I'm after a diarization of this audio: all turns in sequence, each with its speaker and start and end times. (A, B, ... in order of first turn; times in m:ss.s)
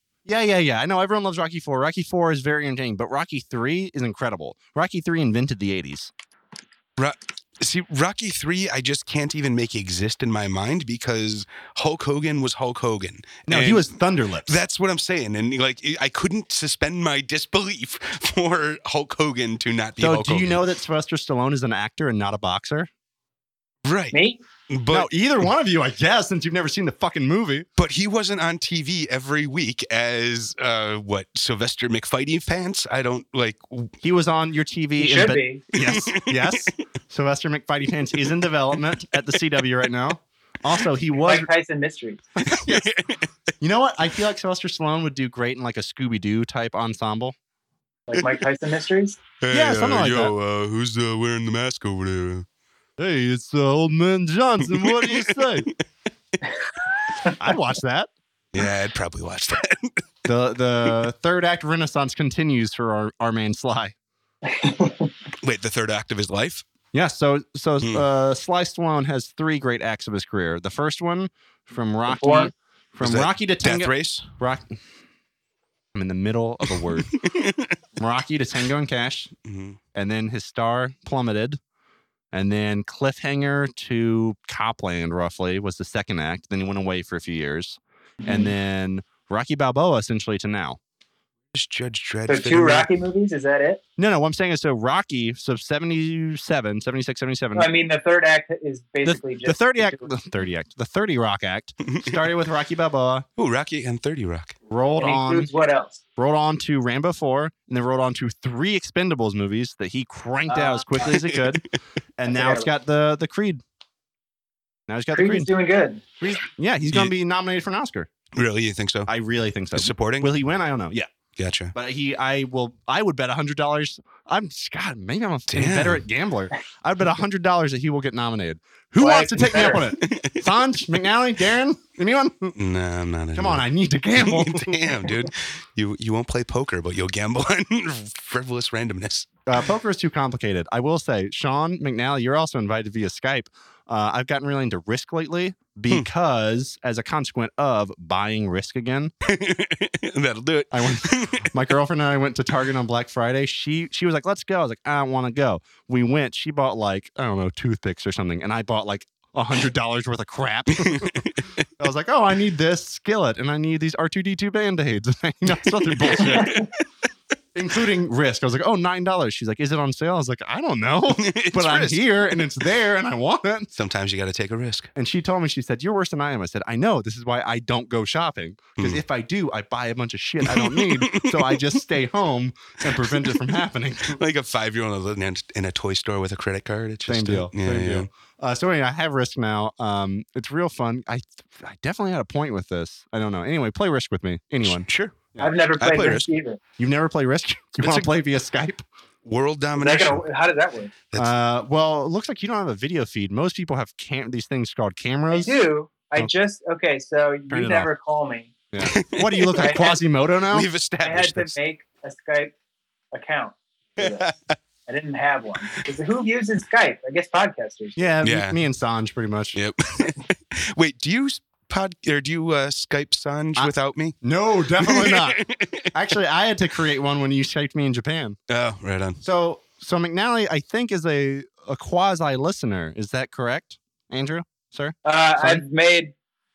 0:00.3-0:06.1 A
0:07.0-0:13.9 B
0:13.5-0:14.6 A
0:14.5-0:20.6 B
0:20.0-0:22.9 A
0:23.8-0:24.2 B
0:24.1-0:24.4 C
0:24.7-0:25.1 B
0:24.9-0:27.7 A
0:27.8-0:34.0 B
0:34.0-0:41.5 A
0:35.0-0:35.6 C
0:35.7-0:36.7 B
0:41.2-0:42.2 C
0:42.4-0:42.9 A
0:42.4-0:43.2 B
0:43.6-0:47.3 A
0:48.1-0:49.2 C
0:49.4-0:52.5 B
0:49.5-0:50.3 A
0:53.0-0:55.7 A
0:54.6-0:55.8 B
0:57.4-0:58.1 A
0:58.5-1:00.0 B
1:00.3-1:04.0 A
1:04.5-1:05.1 C
1:05.4-1:06.6 B
1:06.9-1:14.8 A
1:12.1-1:12.5 C
1:13.0-1:14.3 B
1:16.0-1:17.1 A
1:16.7-1:17.8 B
1:18.0-1:19.3 A
1:19.5-1:19.8 B
1:19.9-1:21.6 A
1:22.3-1:30.8 A
1:28.2-1:28.5 C
1:31.5-1:32.9 B
1:32.3-1:33.8 C
1:34.0-1:37.7 A
1:37.5-1:40.2 C
1:39.0-1:43.2 A
1:41.8-1:42.2 B
1:43.4-1:44.5 B
1:44.7-1:45.5 A
1:45.0-1:46.0 C
1:46.2-1:51.6 A
1:50.5-1:50.8 C
1:51.0-1:51.6 B
1:52.2-1:53.6 A
1:52.3-1:52.7 C
1:54.9-1:55.5 A
1:55.1-1:56.0 C
1:56.2-1:58.1 A
1:58.4-1:59.1 B
1:59.1-2:01.1 A
1:59.7-2:00.3 B
2:01.4-2:01.7 B
2:01.8-2:12.6 A
2:05.5-2:06.1 B
2:09.0-2:09.9 C
2:09.4-2:11.0 B
2:12.6-2:13.6 B
2:13.4-2:14.8 A
2:14.2-2:19.3 B
2:19.5-2:29.1 A
2:29.2-2:31.7 B
2:30.7-2:41.2 A
2:40.8-2:41.7 B
2:41.8-2:46.6 A
2:45.6-2:46.7 B
2:46.4-2:46.6 C
2:47.5-2:53.7 A
2:51.1-2:52.6 B
2:53.8-2:54.9 B
2:55.0-3:04.2 A
3:00.4-3:01.8 B
3:03.0-3:03.5 B
3:04.1-3:08.1 B
3:07.1-3:15.6 A
3:14.6-3:15.2 B
3:15.4-3:16.6 C
3:15.8-3:16.3 B
3:16.8-3:18.8 A
3:17.8-3:18.1 B
3:19.2-3:20.2 B
3:19.8-3:20.9 C
3:21.1-3:21.4 B
3:21.1-3:25.6 A
3:25.3-3:28.5 C
3:27.5-3:27.9 A
3:28.7-3:30.7 A
3:28.8-3:31.5 B
3:29.6-3:30.0 C
3:31.0-3:32.5 C
3:33.1-3:34.3 C
3:34.0-3:34.6 B
3:34.9-3:38.1 C
3:38.0-3:39.6 A
3:38.2-3:38.6 B
3:39.6-3:44.2 B
3:43.6-3:45.4 A
3:44.8-3:45.9 B
3:45.9-3:48.4 A
3:48.5-3:49.2 B
3:49.2-3:55.6 A
3:55.0-3:56.1 C